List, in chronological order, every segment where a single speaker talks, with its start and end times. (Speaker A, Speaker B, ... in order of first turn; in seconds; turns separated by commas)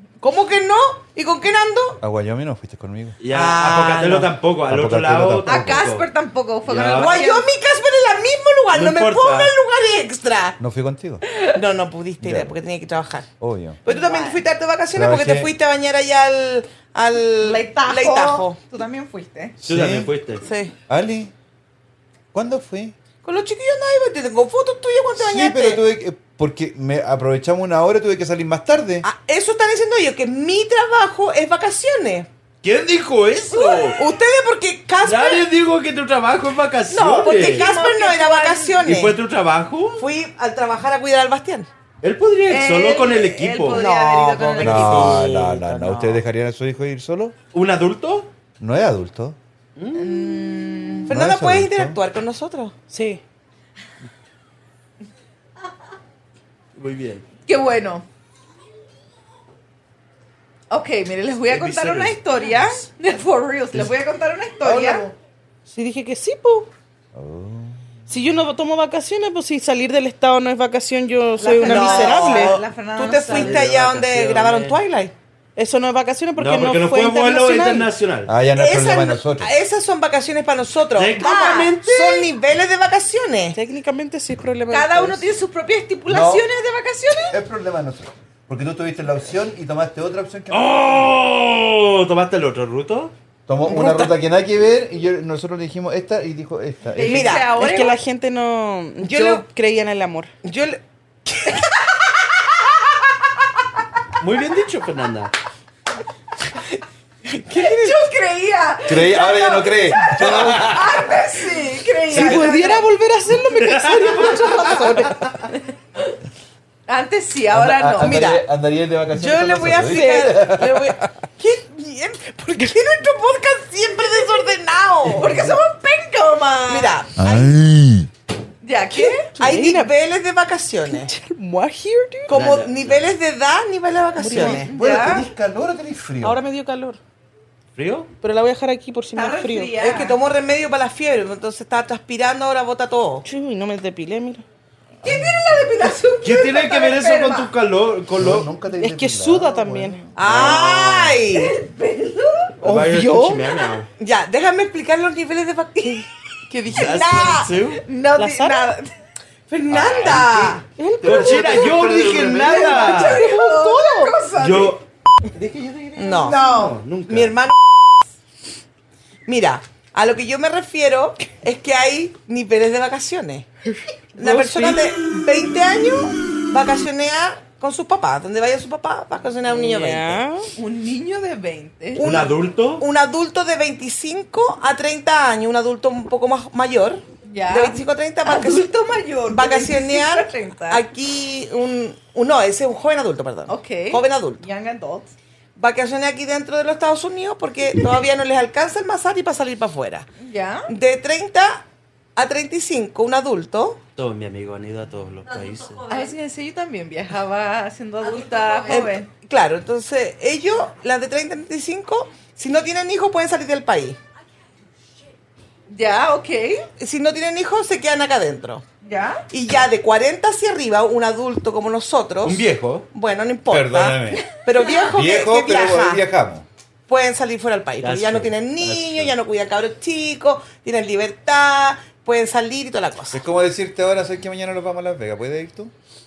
Speaker A: 0.2-2.0, Speaker B: 2.0-3.2, Speaker C: 3.2-6.1, Speaker A: 3.3-4.3, Speaker B: 4.7-5.9, Speaker D: 5.5-7.5, Speaker C: 6.7-7.2, Speaker A: 6.9-10.6, Speaker C: 8.7-9.6, Speaker B: 10.6-11.2, Speaker A: 11.5-13.3, Speaker B: 12.2-12.6, Speaker B: 13.4-13.8, Speaker A: 13.8-18.6, Speaker D: 13.9-14.4, Speaker B: 14.9-15.5, Speaker D: 17.4-19.6, Speaker B: 19.6-20.1, Speaker C: 19.6-20.4, Speaker A: 20.4-20.7, Speaker B: 20.9-21.3, Speaker B: 22.3-22.9, Speaker A: 23.2-25.8, Speaker B: 25.2-29.1, Speaker A: 29.0-32.3, Speaker C: 32.6-34.0, Speaker A: 33.5-35.4, Speaker C: 35.0-37.7, Speaker A: 36.9-39.2, Speaker D: 37.3-38.9, Speaker C: 38.8-40.1, Speaker A: 40.0-41.7, Speaker C: 42.0-43.8, Speaker D: 42.5-45.3, Speaker A: 43.7-46.2, Speaker B: 44.6-47.4, Speaker C: 47.5-48.3, Speaker B: 48.6-49.4, Speaker C: 49.8-50.1, Speaker D: 50.0-51.1, Speaker A: 51.1-52.7, Speaker B: 51.1-52.0, Speaker E: 52.9-53.2, Speaker C: 56.8-57.3, Speaker D: 57.5-58.0, Speaker D: 60.7-65.1, Speaker C: 61.5-62.8, Speaker B: 64.6-65.2, Speaker E: 65.7-66.7, Speaker B: 67.1-67.8, Speaker E: 68.1-72.6, Speaker D: 71.4-73.6, Speaker A: 71.7-75.1, Speaker C: 73.0-74.8, Speaker E: 75.6-77.9, Speaker C: 76.4-78.3, Speaker B: 78.3-79.5, Speaker A: 78.5-83.6, Speaker C: 81.0-82.3, Speaker D: 81.2-81.7, Speaker E: 83.5-85.3, Speaker D: 84.7-87.4, Speaker B: 86.1-86.5, Speaker B: 87.3-91.2, Speaker C: 90.5-93.1, Speaker B: 93.5-97.4, Speaker E: 93.6-94.1, Speaker D: 97.0-98.0, Speaker A: 97.0-97.7, Speaker E: 97.3-100.3, Speaker A: 99.0-99.5, Speaker A: 100.4-101.7, Speaker C: 104.2-105.3, Speaker A: 107.3-108.0, Speaker D: 107.5-112.8, Speaker B: 108.9-111.1, Speaker A: 112.1-112.8, Speaker E: 112.1-115.2, Speaker C: 113.4-115.1, Speaker D: 114.2-114.9, Speaker A: 114.3-115.0, Speaker D: 116.9-118.2, Speaker B: 117.5-121.1, Speaker A: 118.0-118.5, Speaker A: 119.1-125.5, Speaker E: 119.9-120.3, Speaker D: 125.1-127.0, Speaker A: 126.7-127.6, Speaker B: 127.2-128.1, Speaker D: 128.6-129.3, Speaker E: 129.1-129.9, Speaker A: 129.4-131.1, Speaker E: 130.9-132.3, Speaker C: 132.3-133.1, Speaker A: 132.3-134.7, Speaker E: 134.2-134.7, Speaker D: 134.3-135.3, Speaker B: 134.3-136.4, Speaker E: 136.2-137.0, Speaker C: 137.8-138.1, Speaker E: 138.2-139.8, Speaker D: 139.2-140.2, Speaker A: 139.8-143.2, Speaker E: 143.2-144.4, Speaker D: 145.0-147.5, Speaker B: 145.0-145.7, Speaker C: 146.2-148.5, Speaker B: 148.2-150.6, Speaker E: 148.8-150.1, Speaker A: 150.2-151.6, Speaker C: 150.2-151.2, Speaker D: 151.3-152.6, Speaker C: 152.6-153.9, Speaker B: 152.6-153.1, Speaker E: 152.7-153.4, Speaker A: 154.0-156.1, Speaker D: 156.5-158.9, Speaker C: 156.7-157.8, Speaker A: 156.7-157.5, Speaker E: 158.2-158.7, Speaker A: 159.5-160.6, Speaker B: 159.7-162.7, Speaker C: 159.7-160.3, Speaker E: 160.7-161.8, Speaker C: 161.0-163.3, Speaker D: 162.2-164.8, Speaker E: 162.6-164.2, Speaker C: 164.3-167.3, Speaker A: 166.0-166.4, Speaker D: 166.2-166.8, Speaker A: 167.1-167.6, Speaker A: 169.3-173.5, Speaker E: 174.2-174.9, Speaker A: 174.2-180.2, Speaker E: 179.4-180.5, Speaker D: 180.6-182.1, Speaker A: 181.9-188.7, Speaker C: 182.0-182.8, Speaker D: 187.2-190.8, Speaker A: 189.3-194.4, Speaker D: 193.5-195.1, Speaker A: 195.6-200.1, Speaker D: 200.2-200.7, Speaker A: 200.7-201.6, Speaker A: 202.2-203.8, Speaker C: 204.0-205.8, Speaker D: 205.9-209.1, Speaker A: 208.7-214.0, Speaker D: 215.7-216.7, Speaker A: 216.8-218.6, Speaker D: 218.8-219.3, Speaker A: 219.3-226.0, Speaker C: 222.2-222.9, Speaker B: 223.5-224.3, Speaker B: 224.8-226.5, Speaker A: 226.9-233.2, Speaker C: 227.8-229.1, Speaker B: 233.1-235.7